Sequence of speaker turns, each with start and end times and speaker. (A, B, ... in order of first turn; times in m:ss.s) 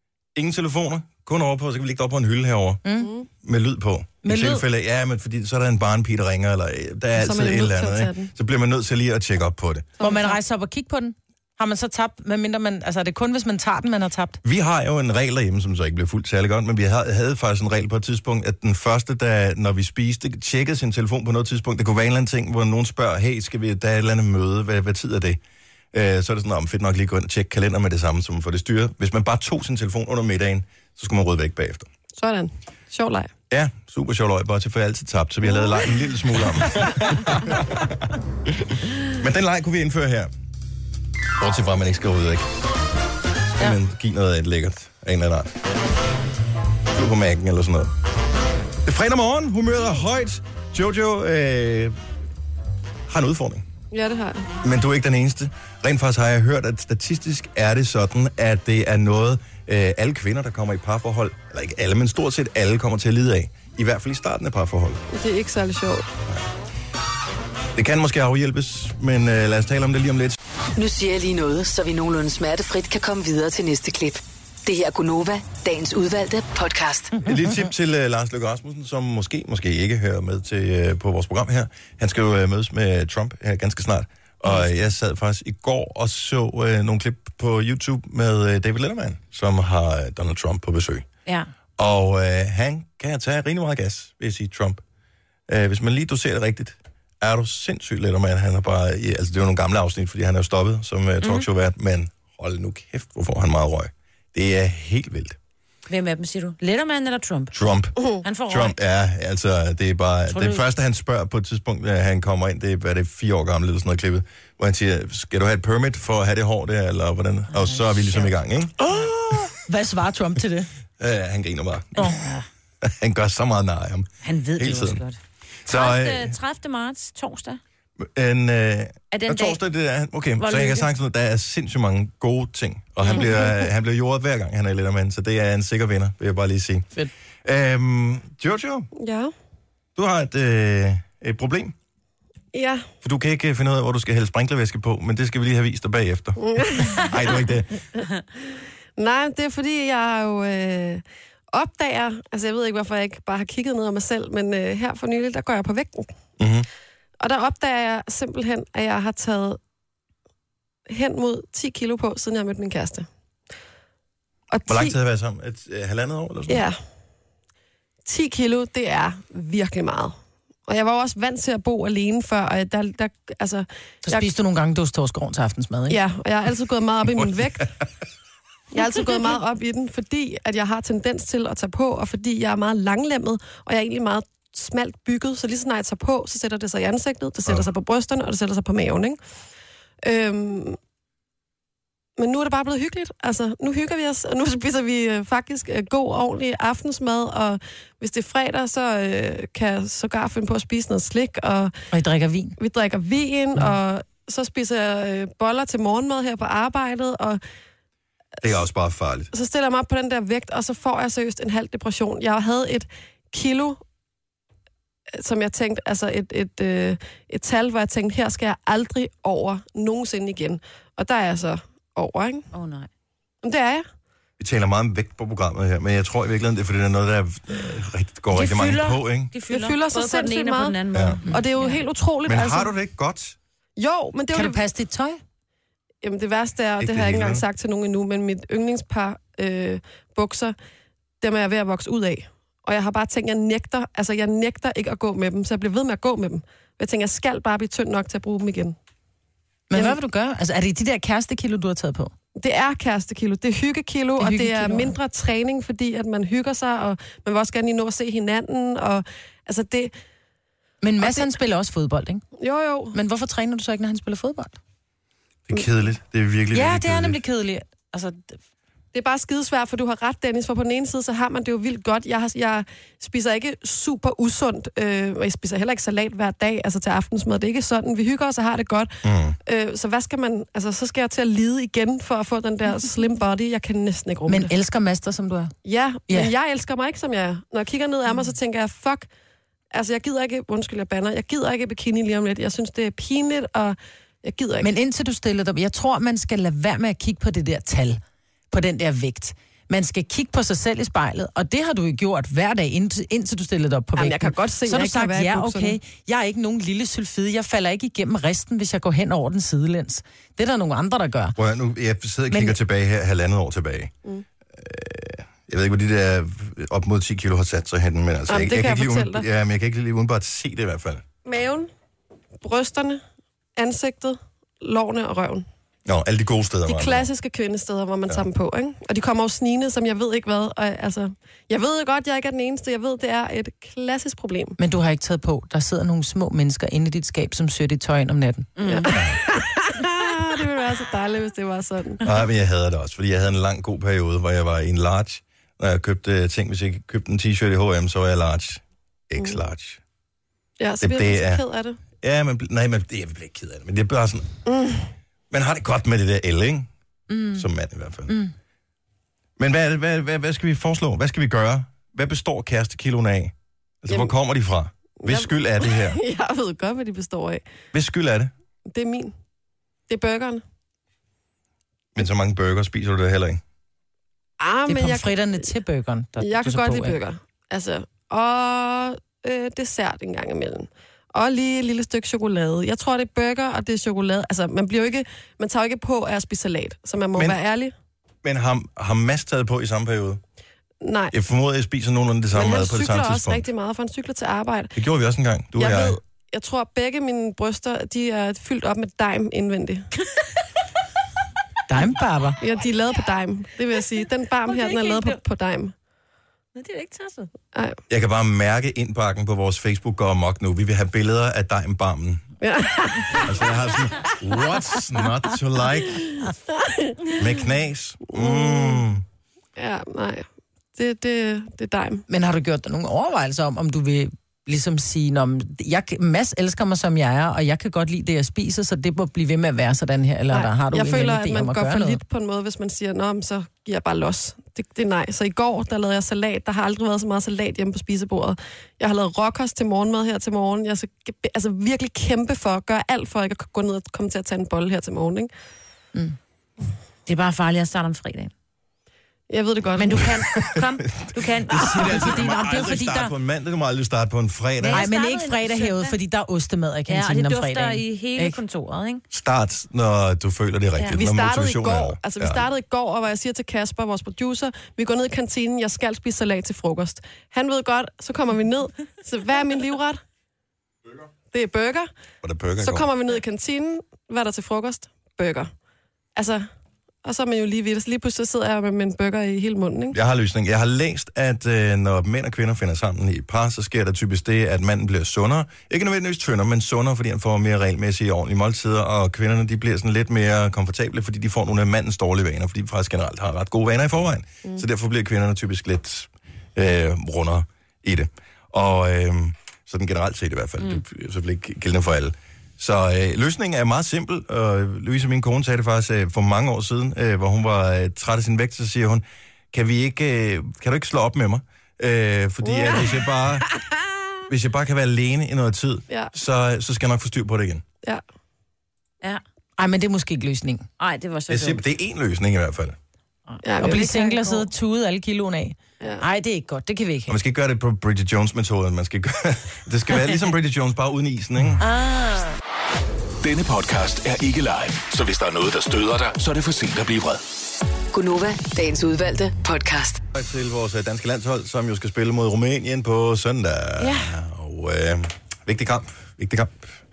0:00.3-0:02.8 A
0:02.8-0:03.1 B
0:03.0-0:03.3 C
0:03.4-0:09.9 A
0:04.2-0:04.6 B
0:07.2-0:08.3 C
0:10.0-0:10.4 C
0:10.0-0:14.4 B
0:14.4-0:25.4 A
0:25.9-0:31.9 A
0:32.2-0:33.3 C
0:33.5-0:37.9 A
0:39.2-0:40.3 A
0:41.4-0:42.5 A
0:43.6-0:45.5 A
0:46.9-0:47.9 A
0:48.8-0:52.0 A
0:53.1-0:53.6 A
0:53.9-0:54.5 C
0:54.6-1:05.0 A
1:05.1-1:06.0 C
1:07.7-1:10.4 A
1:10.8-1:17.2 D
1:17.2-1:17.5 B
1:17.2-1:31.0 A
1:31.8-1:34.8 A
1:35.5-1:45.4 A
1:45.9-1:47.5 E
1:47.5-1:58.7 A
1:48.2-1:48.8 E
1:50.3-1:50.6 E
1:57.6-1:58.3 E
1:58.8-2:00.7 B
2:01.0-2:02.2 A
2:02.0-2:02.3 B
2:02.8-2:05.0 A
2:04.2-2:05.1 E
2:05.6-2:06.3 A
2:05.7-2:07.6 E
2:08.0-2:16.9 A
2:09.1-2:09.6 E
2:10.4-2:10.8 E
2:13.0-2:13.3 E
2:13.2-2:13.5 C
2:17.4-2:18.9 A
2:19.0-2:19.3 C
2:20.0-2:21.7 A
2:22.5-2:22.9 C
2:23.0-2:27.8 A
2:26.4-2:27.4 C
2:29.0-2:31.0 C
2:31.5-2:36.1 C
2:36.4-2:36.7 A
2:37.2-2:39.6 C
2:40.9-2:43.1 C
2:44.5-2:44.9 C
2:44.7-2:46.6 A
2:46.5-2:46.8 C
2:48.0-2:50.2 C
2:50.7-2:54.3 C
2:54.0-2:56.0 B
2:55.9-2:57.7 C
2:58.7-3:09.2 C
3:10.0-3:10.8 C
3:12.2-3:21.7 C
3:21.9-3:22.6 B
3:22.6-3:27.4 C
3:28.4-3:29.3 A
3:29.3-3:33.8 C
3:35.2-3:42.4 C
3:42.5-3:42.9 E
3:43.4-3:43.8 C
3:44.4-3:49.3 A
3:48.3-3:51.8 E
3:49.5-3:52.7 C
3:50.9-3:51.2 A
3:52.2-3:53.4 A
3:53.8-3:54.6 C
3:54.3-3:55.2 B
3:56.0-4:00.5 C
3:56.8-3:57.4 A
4:01.2-4:08.8 C
4:09.7-4:12.1 B
4:12.4-4:19.9 C
4:14.2-4:14.9 B
4:20.8-4:22.2 B
4:21.0-4:21.3 C
4:22.4-4:23.0 C
4:22.9-4:24.6 B
4:25.5-4:27.2 A
4:26.5-4:28.3 B
4:28.9-4:38.9 C
4:39.0-4:39.4 A
4:39.4-4:44.5 C
4:44.3-4:45.5 B
4:45.6-4:49.1 C
4:46.1-4:46.3 B
4:49.7-4:54.7 C
4:54.6-4:58.0 B
4:58.5-5:11.4 B
5:04.0-5:05.8 C
5:11.4-5:13.9 A
5:12.3-5:12.6 B
5:14.5-5:21.0 A
5:18.3-5:19.2 C
5:21.2-5:21.7 C
5:22.4-5:23.0 C
5:23.6-5:25.4 C
5:25.8-5:27.1 A
5:26.6-5:34.6 C
5:34.6-5:38.5 B
5:38.6-5:38.9 E
5:38.6-5:42.0 C
5:38.9-5:39.2 A
5:42.0-5:49.8 A
5:50.6-5:51.8 C
5:50.8-5:54.3 A
5:54.4-5:54.9 C
5:55.3-5:56.7 A
5:57.1-5:57.4 B
5:57.3-5:58.2 A
5:58.1-5:58.3 B
5:59.4-6:06.0 A
6:05.0-6:07.4 C
6:07.7-6:08.3 A
6:08.7-6:09.1 C
6:09.9-6:10.4 C
6:11.9-6:13.4 A
6:14.4-6:15.5 C
6:14.7-6:17.0 B
6:16.2-6:27.7 C
6:28.2-6:30.2 A
6:30.8-6:31.1 C
6:31.1-6:33.5 A
6:32.3-6:34.8 C
6:34.7-6:36.0 A
6:35.5-6:39.9 C
6:41.7-6:42.4 B
6:42.4-6:45.7 C
6:44.4-6:45.2 E
6:46.5-6:47.3 E
6:47.9-6:52.3 A
6:52.4-6:53.4 C
6:53.1-6:56.0 A
6:56.1-6:57.2 C
6:57.2-6:59.0 A
6:58.1-6:58.8 C
6:59.6-7:02.0 C
7:02.1-7:12.0 B
7:10.3-7:25.3 C
7:27.0-7:28.3 E
7:29.3-7:30.1 C
7:29.8-7:32.2 E
7:30.5-7:34.9 A
7:31.6-7:33.1 B
7:34.6-7:36.0 E
7:34.7-7:38.4 B
7:36.9-7:39.0 E
7:39.1-7:42.5 A
7:40.9-7:50.0 C
7:51.3-7:51.9 C
7:52.2-7:52.9 A
7:52.6-7:55.5 C
7:56.2-7:56.5 C
7:57.0-8:00.0 C
7:59.9-8:33.5 A
8:32.4-8:33.0 C
8:34.3-8:37.6 A
8:39.6-8:40.6 B
8:40.8-8:41.6 E
8:41.3-8:42.8 A
8:43.4-8:44.5 C
8:43.6-8:47.1 B
8:45.8-8:46.0 C
8:47.1-8:51.6 A
8:51.8-8:52.3 E
8:53.2-8:57.2 F
8:57.9-9:00.0 D
9:00.1-9:06.7 A
9:03.8-9:04.1 E